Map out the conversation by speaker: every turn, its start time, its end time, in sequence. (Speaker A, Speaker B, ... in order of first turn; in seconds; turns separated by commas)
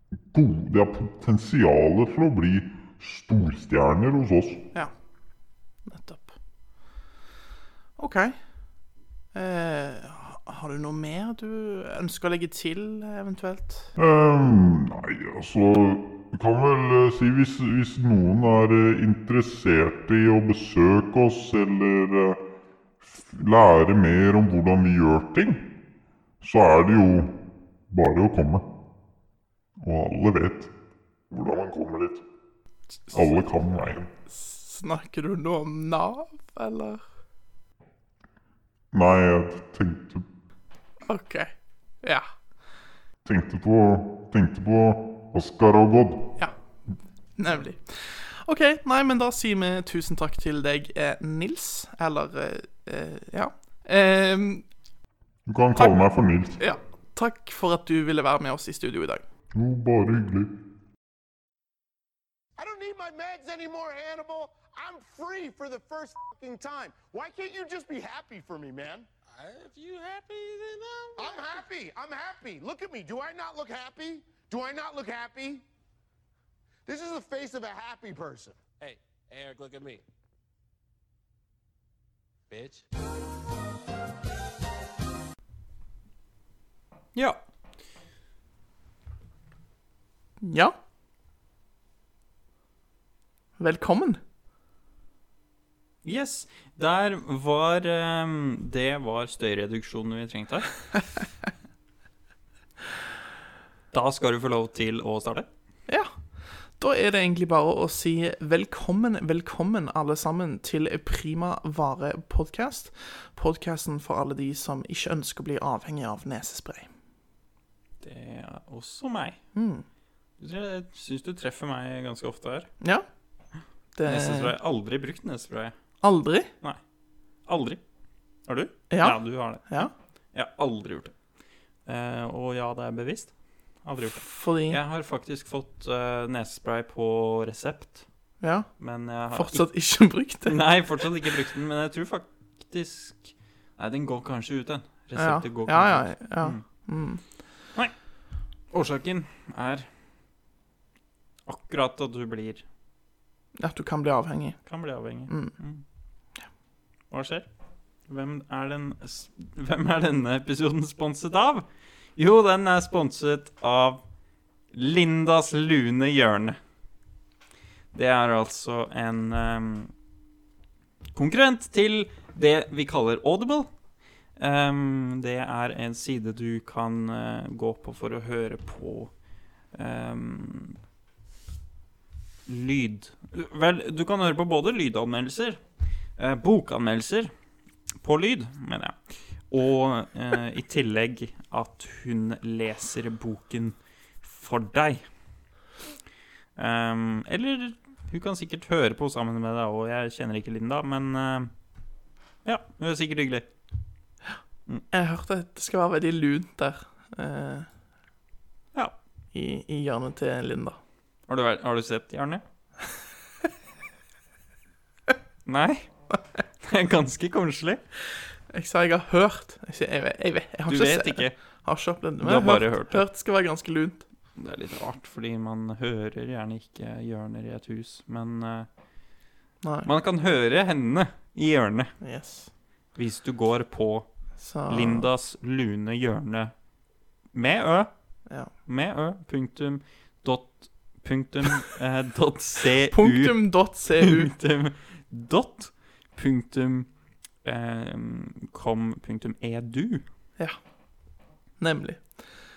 Speaker A: 0.3-4.7, Speaker B: 5.9-6.3, Speaker B: 8.0-8.3, Speaker B: 9.3-13.9, Speaker A: 14.0-22.4, Speaker A: 23.0-25.7, Speaker A: 26.4-28.6, Speaker A: 29.8-30.7, Speaker A: 31.3-32.2, Speaker A: 33.1-34.1, Speaker B: 34.3-37.0, Speaker A: 38.9-40.3, Speaker B: 41.0-41.5, Speaker A: 43.2-46.3, Speaker B: 47.4-54.6, Speaker A: 55.5-56.6, Speaker B: 56.6-59.2, Speaker A: 59.5-60.5, Speaker C: 62.6-69.1, Speaker D: 69.3-71.6, Speaker C: 71.2-75.7, Speaker C: 76.9-78.6, Speaker D: 78.8-80.0, Speaker D: 82.5-82.8, Speaker E: 87.2-87.4, Speaker B: 90.4-90.7, Speaker B: 93.6-94.2, Speaker E: 96.0-100.9, Speaker E: 103.9-105.5, Speaker B: 106.8-116.9, Speaker E: 118.0-119.4, Speaker B: 119.5-119.8, Speaker E: 120.4-122.7, Speaker B: 124.0-124.5, Speaker E: 124.0-125.8, Speaker B: 126.0-126.5, Speaker E: 127.5-127.8, Speaker E: 128.5-131.1, Speaker B: 128.9-129.9, Speaker E: 131.9-138.1, Speaker B: 134.1-134.8, Speaker B: 138.4-138.7, Speaker E: 138.8-139.7, Speaker B: 139.3-141.1, Speaker E: 140.4-146.6, Speaker B: 145.2-147.2, Speaker E: 148.7-149.9, Speaker E: 151.5-152.6, Speaker B: 153.6-154.6, Speaker E: 154.7-155.8, Speaker B: 155.3-155.5, Speaker E: 157.1-157.5, Speaker E: 158.1-164.0, Speaker E: 164.7-166.6, Speaker E: 167.9-169.9, Speaker E: 171.1-173.7, Speaker E: 174.4-179.1, Speaker E: 179.7-180.8, Speaker E: 182.5-185.6, Speaker E: 186.2-187.3, Speaker E: 188.0-195.0, Speaker E: 196.6-201.5, Speaker E: 202.4-203.5, Speaker B: 204.9-207.7, Speaker B: 209.3-210.8, Speaker E: 211.3-212.4, Speaker E: 215.5-215.9, Speaker E: 216.6-217.8, Speaker B: 218.5-224.1, Speaker E: 220.7-221.4, Speaker E: 222.2-223.0, Speaker E: 224.4-228.7, Speaker B: 229.6-229.9, Speaker E: 229.9-231.9, Speaker B: 232.0-232.5, Speaker E: 233.0-234.1, Speaker B: 234.4-235.1, Speaker E: 234.7-236.5, Speaker E: 237.3-237.9, Speaker E: 238.7-246.9, Speaker B: 242.9-244.3, Speaker E: 247.4-250.0, Speaker B: 251.6-252.1